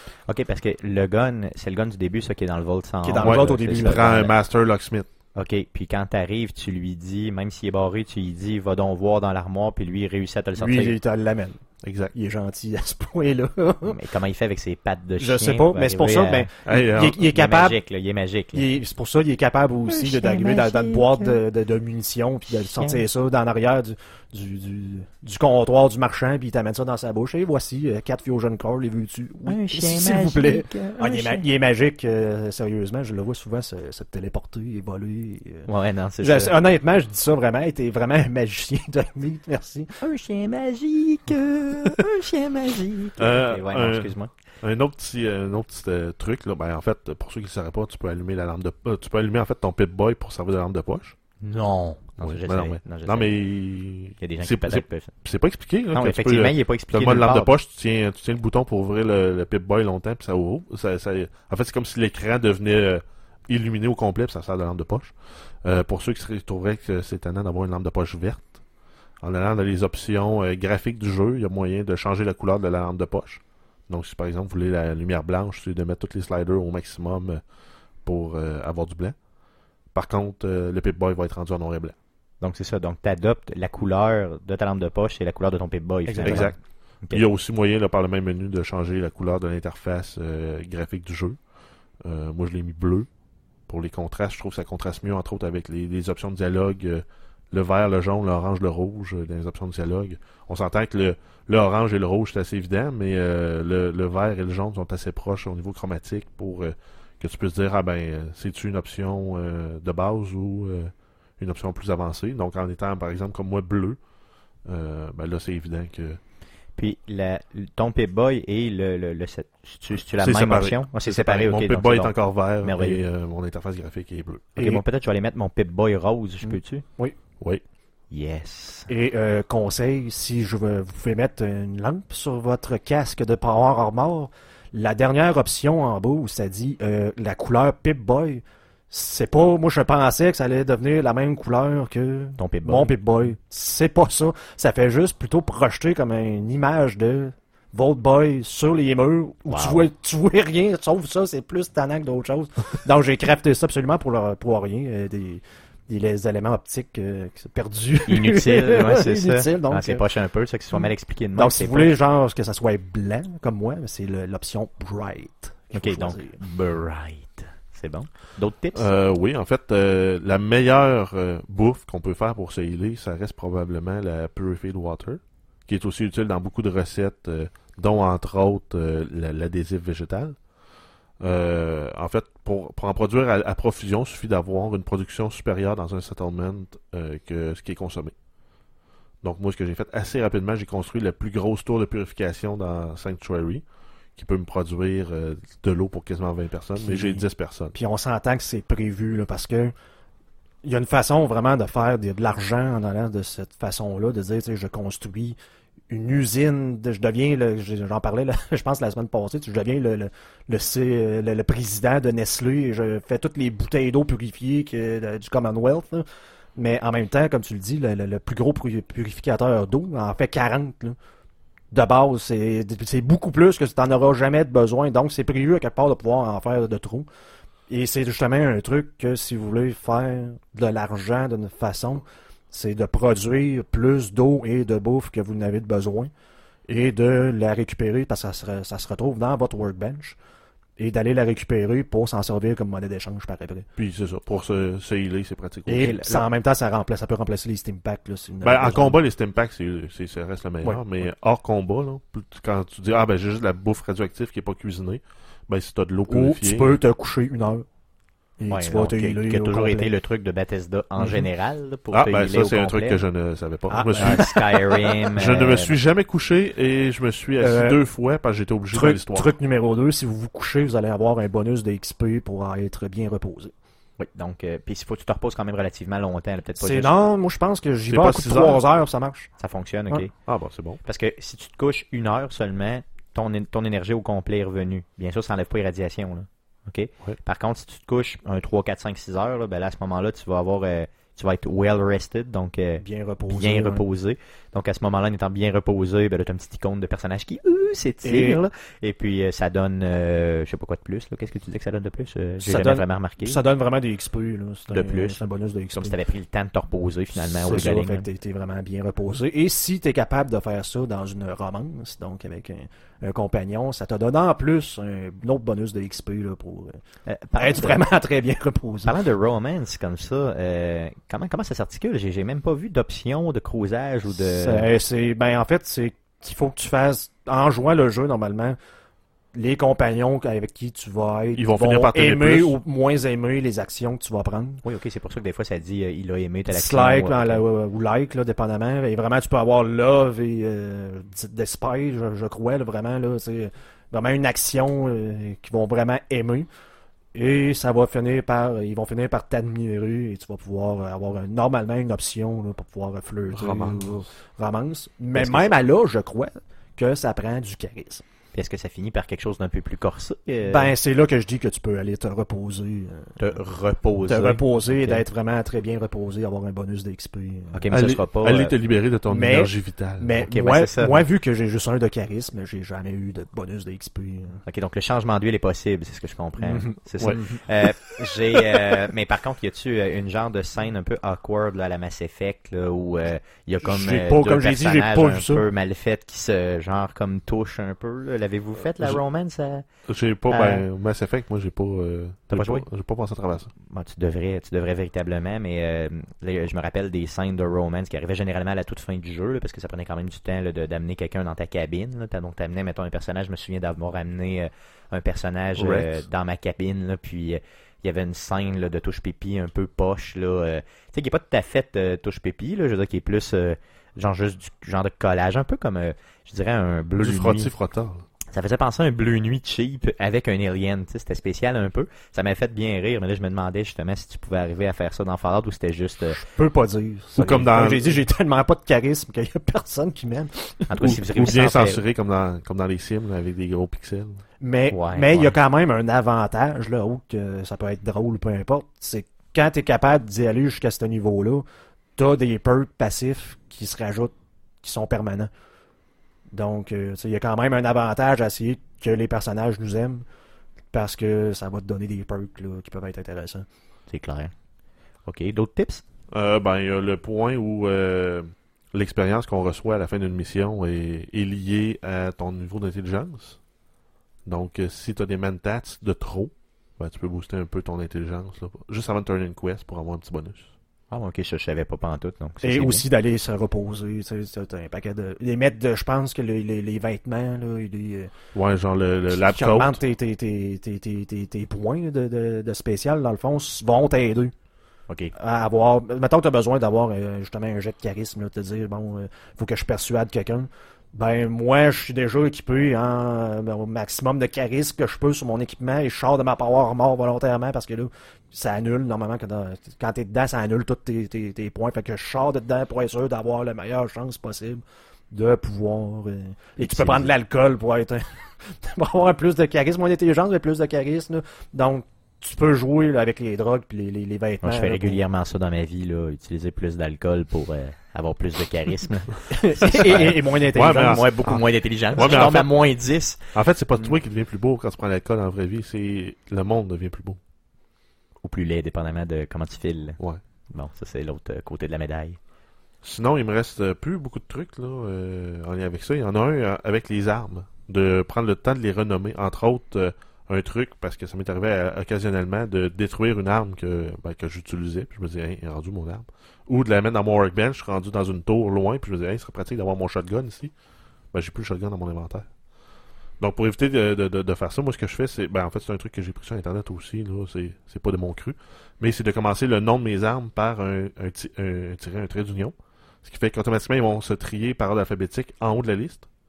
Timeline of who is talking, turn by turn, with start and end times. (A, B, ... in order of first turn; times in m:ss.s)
0:00.3-0:04.4 A
0:03.0-0:04.1 B
0:03.2-0:05.1 C
0:05.3-0:11.0 A
0:10.6-0:14.0 B
0:11.8-0:12.1 C
0:13.8-0:16.5 A
0:15.2-0:17.8 B
0:16.6-0:17.2 C
0:17.2-0:18.6 A
0:18.5-0:40.0 B
0:19.9-0:21.4 A
0:22.8-0:23.0 A
0:29.5-0:31.4 A
0:35.7-0:36.6 A
0:40.0-0:44.3 A
0:43.2-0:51.2 C
0:51.4-0:53.4 A
0:52.2-1:08.6 C
0:54.2-0:55.1 A
0:55.9-0:57.5 A
1:09.2-1:17.4 C
1:18.0-1:19.2 C
1:19.9-1:22.0 C
1:22.4-1:27.2 A
1:26.1-1:26.6 B
1:26.2-1:31.4 C
1:32.0-1:33.1 C
1:33.7-1:54.0 C
1:54.6-1:56.2 C
1:56.8-2:03.0 A
2:00.2-2:04.7 C
2:04.6-2:06.8 A
2:06.5-2:07.2 B
2:08.1-2:08.9 A
2:08.9-2:40.1 B
2:22.4-2:23.0 A
2:29.5-2:29.9 A
2:38.1-2:42.0 A
2:40.7-2:46.4 B
2:45.7-2:48.9 A
2:48.7-3:00.4 C
3:01.2-3:08.1 C
3:09.2-3:13.6 C
3:14.2-3:17.8 C
3:16.8-3:19.7 B
3:20.6-3:25.4 B
3:25.9-3:41.0 B
3:41.7-3:47.1 B
3:47.7-3:56.1 B
3:56.7-4:00.2 B
4:00.8-4:03.7 B
4:03.8-4:06.2 C
4:05.7-4:09.0 B
4:08.4-4:16.8 C
4:16.1-4:17.7 B
4:18.4-4:19.9 B
4:18.5-4:23.0 A
4:21.0-4:21.3 B
4:21.9-4:24.3 C
4:23.7-4:24.9 B
4:23.9-4:25.7 A
4:25.2-4:29.3 C
4:27.4-4:27.8 B
4:28.7-4:33.5 B
4:34.0-4:37.0 A
4:36.6-4:39.3 B
4:37.9-4:38.6 C
4:39.4-4:40.1 A
4:40.3-4:40.8 C
4:40.8-5:03.4 A
4:52.8-4:53.8 B
4:58.0-4:58.4 B
5:02.4-5:06.0 B
5:04.7-5:05.2 A
5:05.8-5:08.1 A
5:07.2-5:16.8 B
5:17.1-5:17.8 A
5:17.4-5:19.0 B
5:18.8-5:24.7 A
5:24.1-5:28.6 B
5:29.3-5:34.6 B
5:31.3-5:32.6 C
5:34.6-5:37.4 A
5:36.5-5:46.5 B
5:47.1-5:58.0 B
5:53.3-5:54.0 C
5:55.1-5:55.5 A
5:58.3-6:00.7 A
6:00.5-6:03.4 B
6:03.2-6:05.0 A
6:04.1-6:07.6 B
6:07.5-6:08.5 A
6:07.7-6:10.3 C
6:09.1-6:14.4 B
6:10.2-6:11.0 A
6:14.5-6:29.6 A
6:16.4-6:18.0 B
6:23.6-6:25.5 B
6:29.9-6:33.5 C
6:30.3-6:30.6 A
6:32.3-6:32.7 A
6:33.6-6:57.5 A
6:45.6-6:46.0 C
6:57.0-6:58.0 C
6:58.3-7:06.2 A
7:06.1-7:11.0 B
7:07.2-7:08.0 C
7:10.7-7:11.8 A
7:10.8-7:14.2 C
7:14.4-7:21.4 B
7:14.7-7:15.4 A
7:22.0-7:25.3 B
7:26.3-7:30.0 B
7:30.7-7:33.5 B
7:33.9-7:34.3 A
7:35.1-7:35.8 A
7:36.1-7:43.4 C
7:44.2-7:50.5 C
7:50.9-7:52.8 A
7:52.4-7:58.1 B
7:58.3-7:59.8 C
7:59.1-8:04.3 B
8:05.1-8:35.0 B
8:26.6-8:27.1 A
8:34.4-8:43.3 A
8:39.3-8:42.3 B
8:40.5-8:41.0 C
8:42.0-8:42.5 C
8:43.3-8:47.2 C
8:48.2-8:52.2 A
8:52.8-9:10.5 C
9:11.1-9:12.3 C
9:13.2-9:26.1 C